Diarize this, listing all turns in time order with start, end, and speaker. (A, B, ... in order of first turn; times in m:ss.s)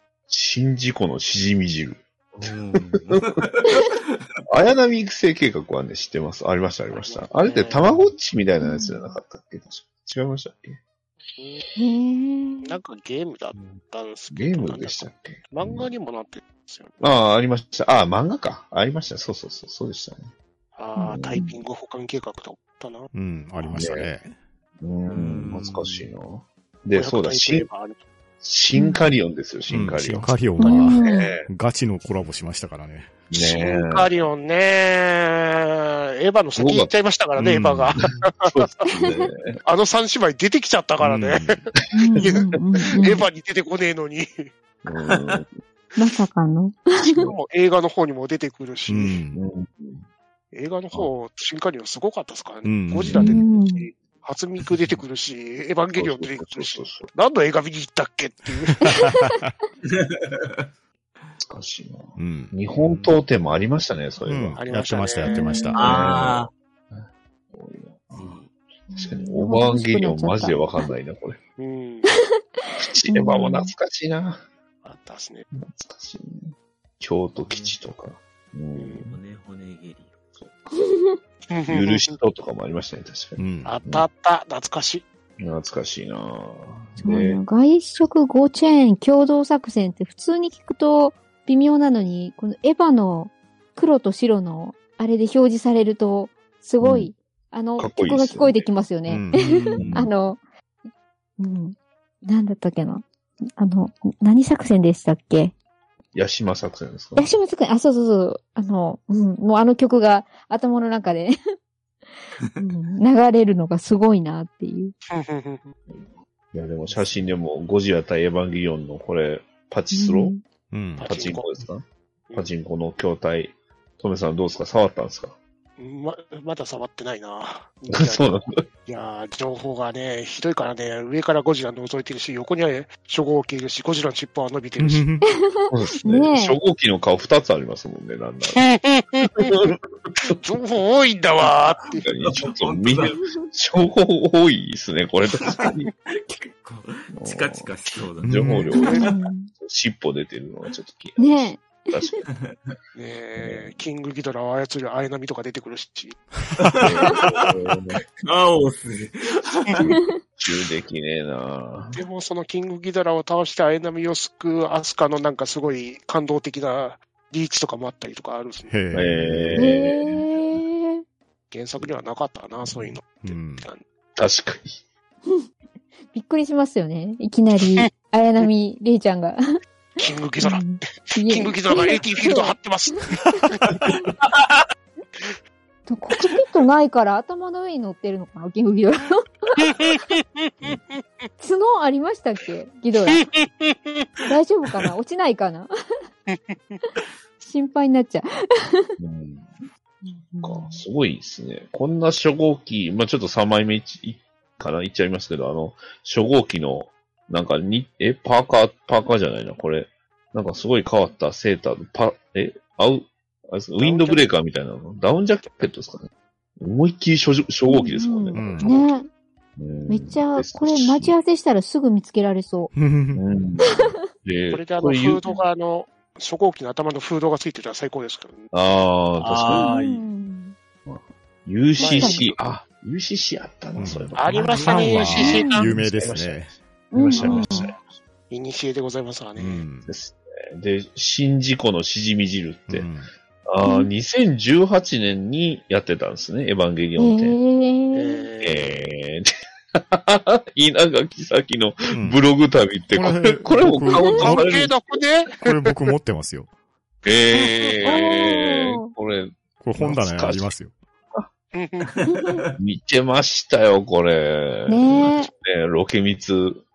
0:00.3-0:03.4 A
0:02.3-0:04.2 B
0:04.5-0:10.8 A
0:06.9-0:07.9 C
0:08.6-0:09.2 D
0:11.4-0:11.6 C
0:11.8-0:12.8 D
0:12.6-0:16.9 C
0:14.3-0:15.9 A
0:17.0-0:20.3 A
0:20.8-0:23.1 C
0:21.0-0:21.6 D
0:21.1-0:21.4 A
0:23.1-0:24.3 E
0:23.7-0:24.1 A
0:24.8-0:27.7 A
0:25.1-0:26.1 B
0:26.9-0:28.0 C
0:28.4-0:30.3 A
0:28.7-0:29.1 D
0:29.7-0:33.3 E
0:30.6-0:31.3 D
0:33.3-0:34.0 A
0:33.3-0:38.6 C
0:36.6-0:36.9 A
0:37.5-0:37.9 E
0:38.4-0:39.6 A
0:38.9-0:39.3 D
0:39.6-0:41.6 C
0:41.0-0:41.6 E
0:41.9-0:43.2 D
0:42.2-0:44.5 C
0:44.8-0:45.5 A
0:46.0-0:47.2 D
0:47.0-0:47.4 A
0:47.1-0:49.2 C
0:48.9-0:49.4 E
0:49.3-0:50.0 A
0:50.5-0:58.8 C
0:52.6-0:53.4 E
0:53.1-0:53.9 D
0:55.9-0:57.1 A
0:58.8-0:59.5 E
0:58.9-0:59.3 D
0:59.9-1:00.4 B
1:01.4-1:04.6 A
1:02.2-1:02.5 E
1:02.7-1:03.1 B
1:04.2-1:05.8 E
1:04.6-1:05.7 C
1:05.3-1:05.9 D
1:05.7-1:11.4 A
1:05.7-1:06.5 B
1:08.2-1:08.4 B
1:08.9-1:10.7 D
1:11.6-1:12.1 C
1:12.8-1:14.4 A
1:13.1-1:13.7 D
1:14.8-1:15.4 C
1:15.6-1:19.2 A
1:17.5-1:17.8 B
1:18.7-1:19.1 C
1:19.0-1:20.2 B
1:20.7-1:21.2 D
1:21.5-1:22.1 C
1:21.7-1:24.0 A
1:23.4-1:23.8 E
1:23.6-1:25.0 C
1:25.4-1:27.4 A
1:27.0-1:40.4 D
1:36.8-1:37.1 A
1:37.8-1:38.7 A
1:39.1-1:39.7 E
1:39.5-1:40.1 B
1:39.8-1:40.1 A
1:41.4-1:43.0 D
1:43.6-1:45.5 D
1:46.1-1:47.3 A
1:47.2-1:51.3 D
1:52.5-1:54.9 D
1:55.1-1:55.7 C
1:55.9-2:00.3 A
1:56.9-1:57.4 B
1:59.9-2:00.4 D
2:00.7-2:01.1 E
2:01.0-2:01.4 C
2:01.0-2:05.4 A
2:05.8-2:15.0 C
2:07.9-2:08.6 A
2:14.8-2:15.3 E
2:15.3-2:16.6 D
2:15.7-2:18.6 A
2:18.6-2:19.5 C
2:19.3-2:19.7 A
2:20.4-2:22.0 C
2:21.9-2:25.9 A
2:22.2-2:23.2 B
2:23.2-2:23.5 D
2:25.4-2:29.2 B
2:27.1-2:29.0 A
2:28.2-2:28.7 E
2:28.7-2:29.5 D
2:28.8-2:29.1 C
2:29.5-2:32.2 A
2:31.2-2:32.2 D
2:32.3-2:32.7 B
2:32.9-2:36.2 C
2:33.4-2:33.7 A
2:36.6-2:39.9 B
2:36.8-2:38.0 A
2:40.4-2:42.0 A
2:41.9-2:48.7 C
2:48.7-2:49.6 E
2:48.9-2:50.6 A
2:49.6-2:51.0 D
2:51.5-2:53.8 C
2:53.2-2:53.7 E
2:54.2-2:54.8 A
2:56.1-2:59.4 D
3:00.0-3:03.6 C
3:00.4-3:03.4 D
3:03.7-3:04.5 B
3:05.9-3:09.7 D
3:09.6-3:11.3 C
3:11.4-3:13.2 D
3:13.1-3:14.2 C
3:14.2-3:15.7 D
3:16.3-3:16.8 C
3:17.4-3:18.9 D
3:19.0-3:19.5 A
3:20.0-3:20.8 D
3:20.4-3:38.7 A
3:33.8-3:34.3 C
3:37.7-3:39.1 D
3:38.3-3:38.7 E
3:39.6-3:41.2 A
3:39.9-3:42.7 D
3:42.7-3:43.2 E
3:43.1-3:45.2 A
3:43.7-3:43.9 D
3:44.5-3:48.5 C
3:48.5-3:49.8 A
3:49.2-3:50.0 B
3:49.5-3:50.6 D
3:50.8-3:57.8 A
3:51.8-3:52.3 C
3:51.8-3:52.2 D
3:53.7-3:56.6 E
3:54.2-3:55.6 C
3:55.1-3:55.7 D
3:56.9-3:57.7 D
3:57.2-3:57.6 C
3:58.3-3:59.6 C
3:59.4-3:59.9 E
3:59.8-4:02.9 A
4:02.7-4:03.1 E
4:03.4-4:07.4 A
4:03.6-4:03.9 D
4:07.0-4:08.2 D
4:07.9-4:08.9 C
4:08.4-4:15.0 A
4:11.9-4:12.2 E
4:12.9-4:14.4 E
4:14.1-4:15.8 C
4:15.4-4:16.5 E
4:17.0-4:20.5 A
4:17.3-4:18.9 D
4:19.6-4:20.8 E
4:21.5-4:21.9 C
4:22.0-4:22.5 B
4:22.1-4:22.4 D
4:22.6-4:26.6 A
4:24.7-4:25.3 D